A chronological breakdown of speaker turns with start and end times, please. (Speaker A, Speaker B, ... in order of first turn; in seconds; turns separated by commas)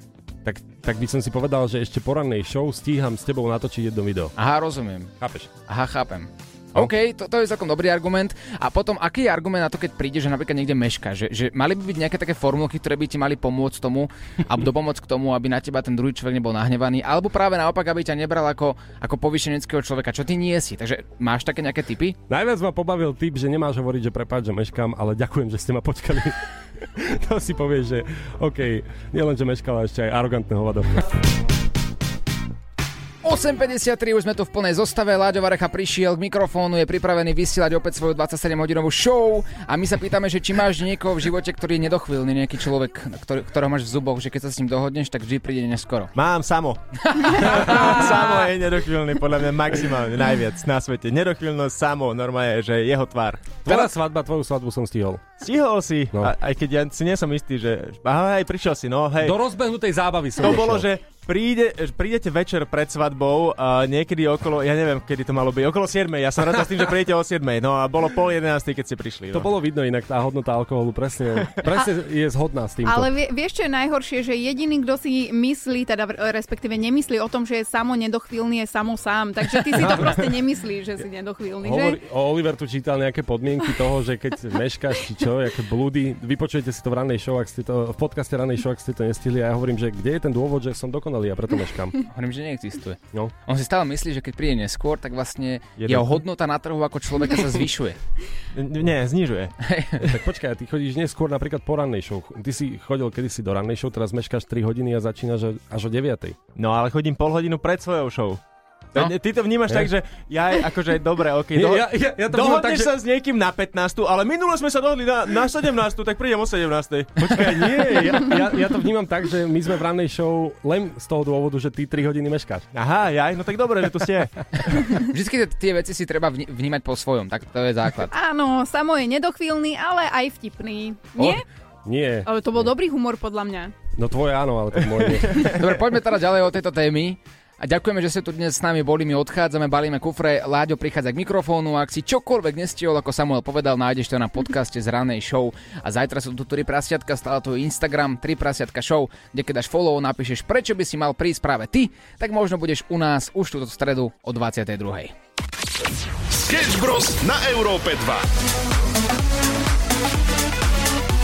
Speaker A: 0.4-4.3, Speaker B: 4.4-5.1, Speaker A: 5.2-5.5, Speaker B: 5.7-22.2, Speaker A: 22.3-30.9, Speaker B: 33.2-46.1, Speaker C: 46.1-46.8, Speaker B: 47.0-47.8, Speaker C: 47.4-53.9, Speaker A: 53.6-55.3, Speaker C: 55.4-59.4, Speaker A: 59.2-60.9, Speaker C: 60.4-69.5, Speaker A: 69.3-73.1, Speaker D: 72.8-82.0, Speaker A: 79.8-80.1, Speaker A: 81.6-92.0, Speaker B: 92.1-98.0, Speaker A: 95.8-96.2, Speaker C: 98.5-99.5, Speaker B: 99.6-100.0, Speaker A: 100.1-106.4, Speaker C: 106.5-108.4, Speaker C: 108.9-118.3, Speaker A: 109.7-109.9, Speaker A: 111.5-112.9, Speaker A: 117.2-122.7, Speaker C: 122.7-124.3, Speaker B: 124.8-128.1, Speaker D: 128.1-131.4, Speaker A: 131.8-132.7, Speaker D: 132.2-133.7, Speaker A: 134.0-135.4, Speaker B: 135.6-155.1, Speaker E: 156.3-158.3